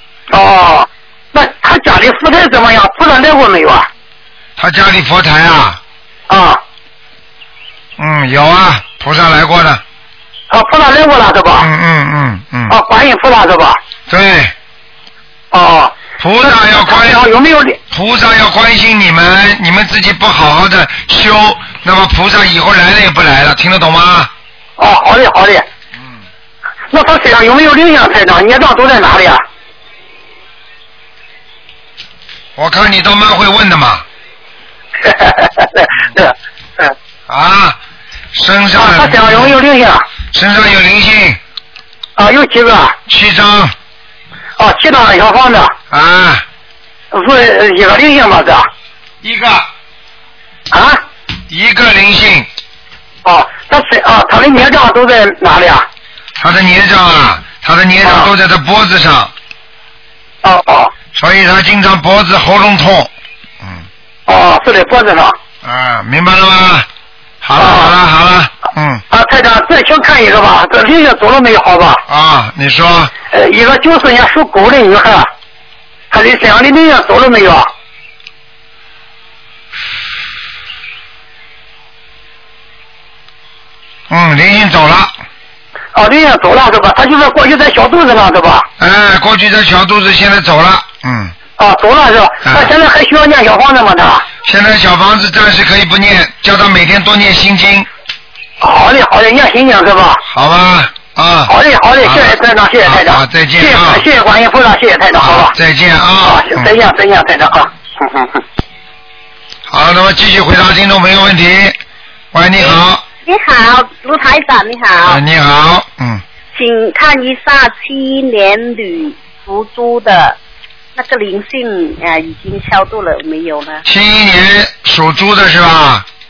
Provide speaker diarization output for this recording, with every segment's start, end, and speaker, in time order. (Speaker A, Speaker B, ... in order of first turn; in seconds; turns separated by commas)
Speaker A: 0.3-3.9, Speaker B: 4.6-5.8, Speaker A: 6.3-6.6, Speaker B: 8.0-9.8, Speaker A: 10.5-11.7, Speaker B: 11.6-12.8, Speaker A: 12.7-13.8, Speaker B: 14.1-14.5, Speaker A: 15.5-17.8, Speaker B: 16.2-17.2, Speaker B: 17.9-24.3, Speaker A: 24.8-25.6, Speaker A: 26.9-29.4, Speaker B: 32.5-34.0, Speaker A: 35.0-36.9, Speaker B: 37.3-37.8, Speaker B: 38.3-39.6, Speaker A: 38.8-40.0, Speaker B: 40.3-41.4, Speaker A: 42.2-43.0, Speaker B: 43.1-43.7, Speaker A: 44.6-45.7, Speaker B: 45.9-46.4, Speaker A: 47.1-48.7, Speaker B: 49.2-49.7, Speaker A: 50.7-51.0, Speaker B: 51.5-52.5, Speaker A: 53.2-55.9, Speaker B: 56.4-59.3, Speaker A: 60.4-60.9, Speaker B: 61.1-63.1, Speaker A: 64.3-65.4, Speaker B: 65.6-66.9, Speaker B: 67.4-69.0, Speaker A: 67.6-67.9, Speaker A: 69.1-72.0, Speaker B: 72.1-73.1, Speaker A: 73.3-75.3, Speaker A: 76.1-77.7, Speaker B: 84.1-85.1, Speaker A: 85.9-88.7, Speaker B: 88.8-91.3, Speaker A: 91.6-94.3, Speaker B: 92.4-92.7, Speaker B: 94.4-97.9, Speaker A: 98.6-100.2, Speaker B: 100.2-104.0, Speaker A: 101.5-105.5, Speaker B: 105.2-106.7, Speaker A: 106.2-108.4, Speaker B: 109.7-111.8, Speaker B: 112.3-113.0, Speaker C: 112.6-115.2, Speaker B: 115.0-116.2, Speaker C: 116.5-120.4, Speaker C: 120.9-123.8, Speaker B: 123.8-126.0